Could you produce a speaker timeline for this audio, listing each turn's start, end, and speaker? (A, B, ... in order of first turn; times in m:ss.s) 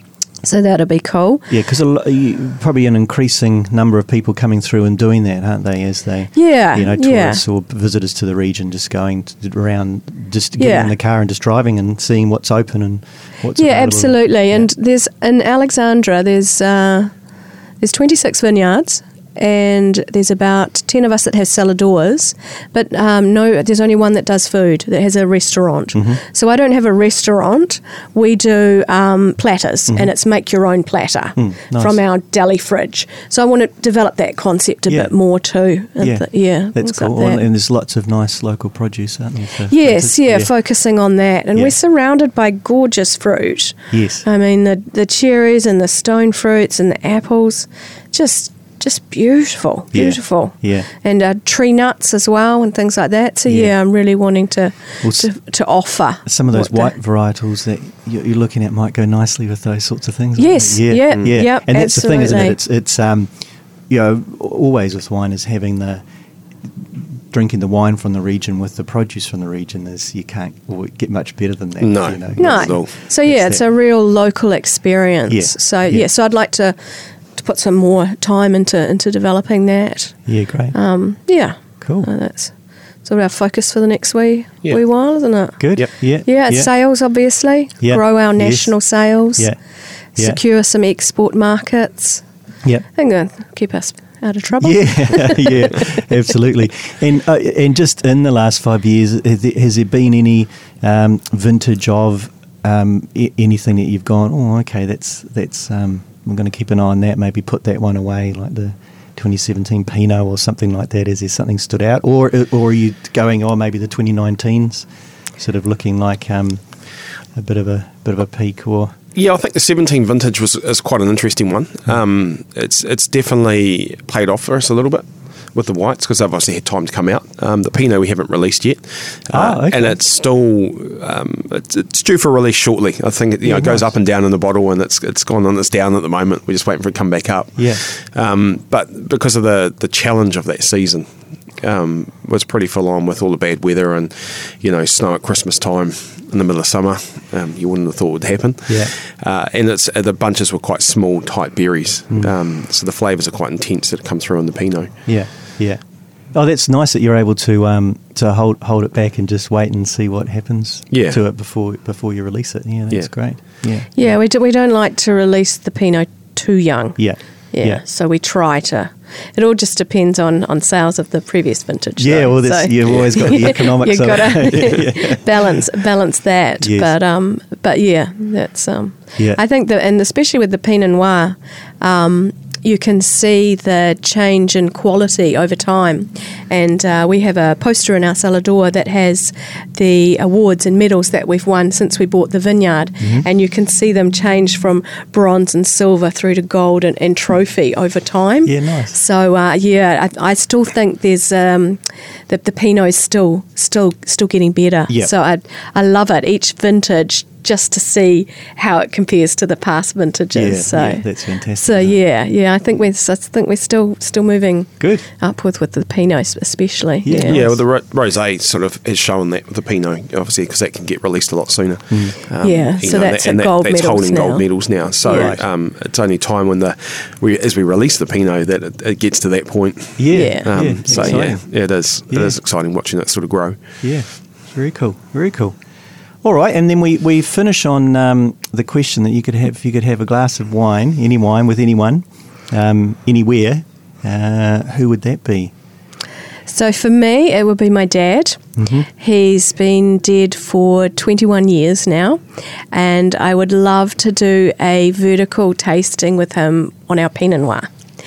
0:00.4-0:01.5 A
0:01.5-0:14.7 B
0:06.4-0:07.4 A
0:10.6-0:10.9 A
0:13.6-0:17.1 A
0:17.8-0:37.4 A
0:25.9-0:26.2 B
0:31.4-0:32.0 B
0:36.0-0:40.5 B
0:39.7-0:56.9 A
0:43.9-0:44.3 B
0:49.9-0:50.9 B
0:53.5-0:53.7 B
0:55.0-0:55.3 B
0:56.3-1:03.3 B
1:00.4-1:02.6 A
1:03.9-1:06.0 B
1:07.3-1:13.6 B
1:11.8-1:12.9 C
1:12.4-1:16.8 A
1:15.3-1:16.0 B
1:17.4-1:20.2 A
1:20.3-1:20.8 B
1:20.7-1:22.5 A
1:21.8-1:22.1 B
1:23.0-1:25.6 A
1:25.6-1:26.7 B
1:26.2-1:29.5 A
1:27.8-1:28.7 B
1:30.2-1:32.2 A
1:32.9-1:35.8 A
1:34.6-1:54.9 B
1:55.4-1:56.6 B
1:57.4-1:59.0 B
1:59.2-2:34.9 C
2:09.3-2:10.0 B
2:13.4-2:13.9 B
2:17.6-2:17.8 B
2:28.7-2:28.9 B
2:35.1-2:35.8 B
2:36.3-2:44.1 B
2:40.9-2:41.2 C
2:44.0-2:47.0 A
2:47.0-2:47.8 B
2:47.5-3:37.5 A
2:52.0-2:55.5 B
2:56.6-2:56.9 B
3:13.0-3:13.3 B
3:18.4-3:19.0 B
3:30.3-3:32.0 B
3:34.8-3:35.0 B
3:37.0-3:37.6 B
3:37.2-3:53.6 C
3:42.4-3:44.5 A
3:45.1-3:45.4 B
3:50.0-3:51.4 B
3:50.1-3:50.5 A
3:52.1-3:52.4 B
3:53.8-3:55.6 B
3:56.2-4:05.5 B
4:06.5-4:12.2 A
4:08.6-4:08.9 B
4:12.7-4:17.7 A